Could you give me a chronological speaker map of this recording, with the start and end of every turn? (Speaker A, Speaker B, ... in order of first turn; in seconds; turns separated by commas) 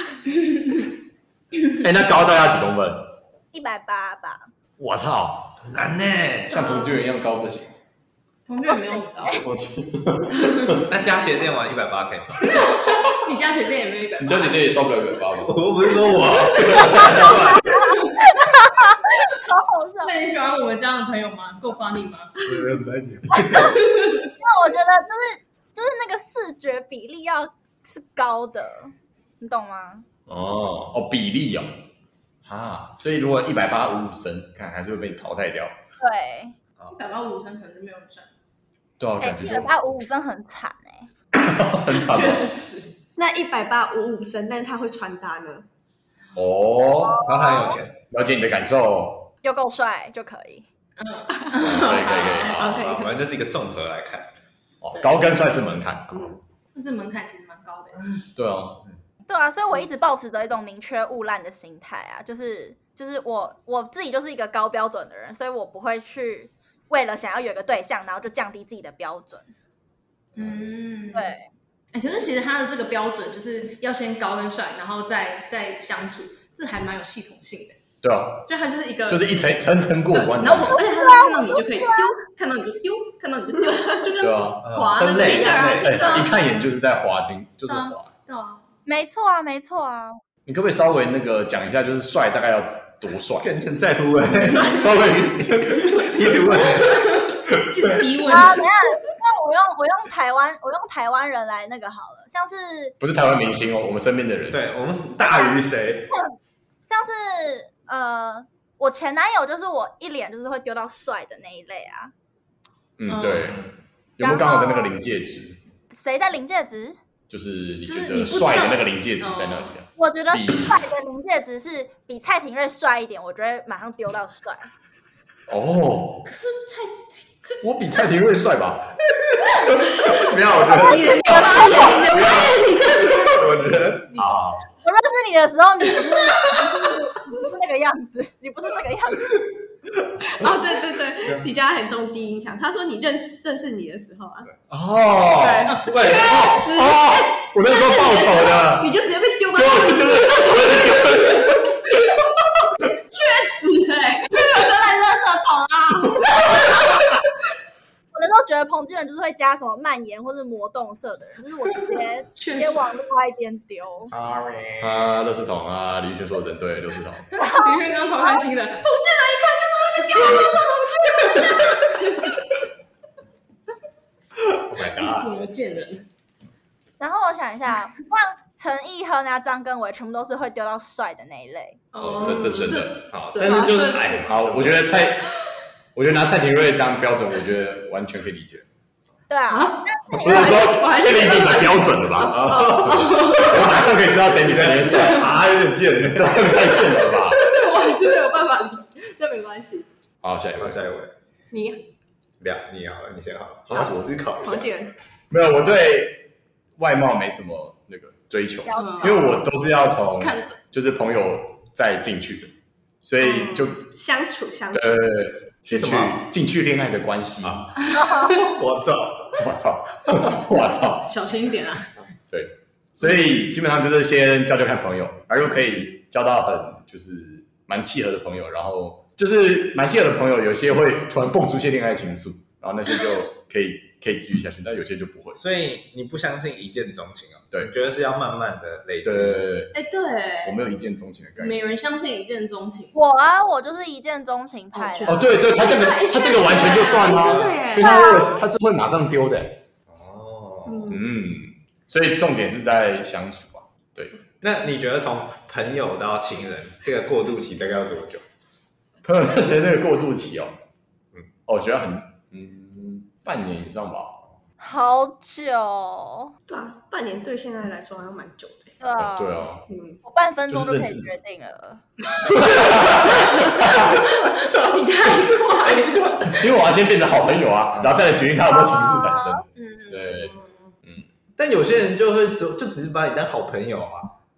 Speaker A: 0.5-0.8, Speaker B: 1.7-3.1, Speaker C: 3.5-4.5, Speaker B: 4.8-5.6, Speaker D: 5.6-6.7, Speaker B: 6.5-7.7, Speaker A: 8.5-9.4, Speaker C: 8.7-9.4, Speaker B: 9.3-10.9, Speaker A: 10.4-10.8, Speaker D: 10.8-12.5, Speaker A: 12.4-14.7, Speaker B: 12.8-13.1, Speaker B: 14.2-15.6, Speaker D: 15.4-18.0, Speaker B: 16.5-17.6, Speaker A: 16.8-18.2, Speaker C: 17.6-20.1, Speaker A: 20.0-22.4, Speaker D: 22.4-23.8, Speaker A: 23.4-24.3, Speaker C: 24.4-30.1, Speaker B: 30.3-31.7, Speaker B: 32.4-35.7, Speaker C: 36.0-36.5, Speaker A: 36.9-38.3, Speaker B: 39.0-39.8, Speaker C: 39.2-41.1, Speaker B: 41.3-42.6, Speaker A: 41.9-42.9, Speaker E: 43.1-45.7, Speaker B: 46.3-47.5, Speaker C: 47.0-47.8, Speaker D: 47.2-48.0, Speaker B: 48.1-49.3, Speaker C: 49.4-50.7, Speaker A: 51.0-52.5, Speaker B: 51.5-52.8, Speaker E: 52.3-53.1, Speaker D: 52.5-54.3, Speaker B: 54.8-56.4, Speaker A: 56.7-58.0, Speaker B: 58.3-58.8, Speaker C: 59.3-69.5, Speaker A: 70.3-71.3, Speaker C: 71.1-71.5, Speaker A: 71.9-77.8, Speaker B: 78.0-78.5, Speaker A: 78.5-79.3, Speaker B: 79.1-80.8, Speaker A: 80.1-86.3, Speaker C: 80.7-82.1, Speaker B: 84.2-88.1, Speaker D: 84.6-86.2, Speaker A: 87.7-88.7, Speaker C: 88.8-90.2, Speaker B: 90.5-93.5, Speaker D: 93.4-97.4, Speaker B: 94.5-96.6, Speaker A: 96.7-98.7, Speaker C: 98.2-103.0, Speaker B: 103.0-104.6, Speaker D: 104.5-106.1, Speaker C: 105.2-105.5, Speaker C: 106.1-106.3, Speaker C: 106.9-112.1, Speaker B: 113.0-115.6, Speaker A: 113.1-113.5, Speaker C: 114.2-115.0, Speaker C: 115.9-117.0, Speaker B: 117.3-120.8, Speaker A: 117.8-119.7, Speaker C: 120.0-124.7, Speaker B: 125.5-126.3, Speaker A: 126.2-127.6, Speaker B: 127.6-129.0, Speaker B: 129.6-133.1, Speaker A: 129.7-134.3, Speaker C: 130.9-132.0, Speaker D: 133.1-134.1, Speaker B: 134.1-134.6, Speaker C: 134.8-139.4, Speaker E: 140.2-144.5, Speaker B: 144.7-148.9, Speaker A: 145.4-151.7, Speaker B: 149.5-152.1, Speaker A: 153.1-154.7, Speaker E: 154.3-156.3, Speaker A: 156.3-157.0, Speaker C: 158.1-164.1, Speaker A: 162.3-162.9, Speaker D: 164.1-165.1, Speaker B: 164.8-167.3, Speaker A: 167.3-169.0, Speaker C: 167.4-167.8, Speaker E: 168.8-171.9, Speaker A: 170.1-172.3, Speaker B: 174.7-175.3, Speaker A: 174.8-176.1, Speaker C: 177.0-181.8, Speaker A: 181.9-184.2, Speaker B: 182.0-183.6, Speaker D: 182.2-184.8, Speaker B: 184.2-185.4, Speaker B: 185.9-188.7, Speaker C: 189.3-190.8, Speaker A: 189.5-193.8, Speaker B: 190.1-197.5, Speaker D: 192.4-197.0, Speaker A: 197.3-199.9, Speaker B: 200.2-200.8, Speaker D: 200.6-201.1, Speaker E: 201.5-201.8, Speaker D: 202.4-204.7, Speaker B: 203.7-204.1, Speaker E: 204.4-204.9, Speaker B: 205.3-206.2, Speaker B: 206.8-212.5, Speaker C: 208.6-209.4, Speaker A: 208.8-209.3, Speaker A: 210.2-210.6, Speaker B: 213.0-213.9, Speaker E: 213.2-215.1, Speaker B: 214.7-217.8, Speaker D: 215.7-216.3, Speaker D: 217.4-219.4, Speaker A: 217.8-218.5, Speaker C: 217.9-218.3, Speaker B: 219.4-221.1, Speaker A: 221.1-221.9, Speaker B: 222.3-235.4, Speaker D: 235.3-239.5, Speaker B: 239.0-239.7, Speaker A: 239.7-240.6, Speaker B: 240.4-241.6, Speaker A: 241.4-242.9, Speaker C: 242.9-245.3, Speaker A: 244.7-248.2, Speaker B: 245.1-249.6, Speaker D: 247.1-247.6, Speaker C: 247.8-248.4, Speaker D: 249.9-251.0, Speaker E: 250.7-251.0, Speaker B: 250.9-254.2, Speaker D: 254.4-258.2, Speaker B: 259.0-260.5, Speaker B: 261.4-264.2, Speaker C: 264.6-266.3, Speaker E: 266.5-268.8, Speaker C: 268.8-269.5, Speaker B: 268.9-269.7, Speaker E: 269.7-270.0, Speaker C: 270.0-271.8, Speaker B: 270.5-271.1, Speaker B: 272.1-274.0, Speaker A: 272.6-276.5, Speaker D: 275.6-276.2, Speaker B: 276.3-281.1, Speaker D: 277.7-278.1, Speaker C: 278.6-279.4, Speaker A: 279.6-280.7, Speaker D: 281.4-284.1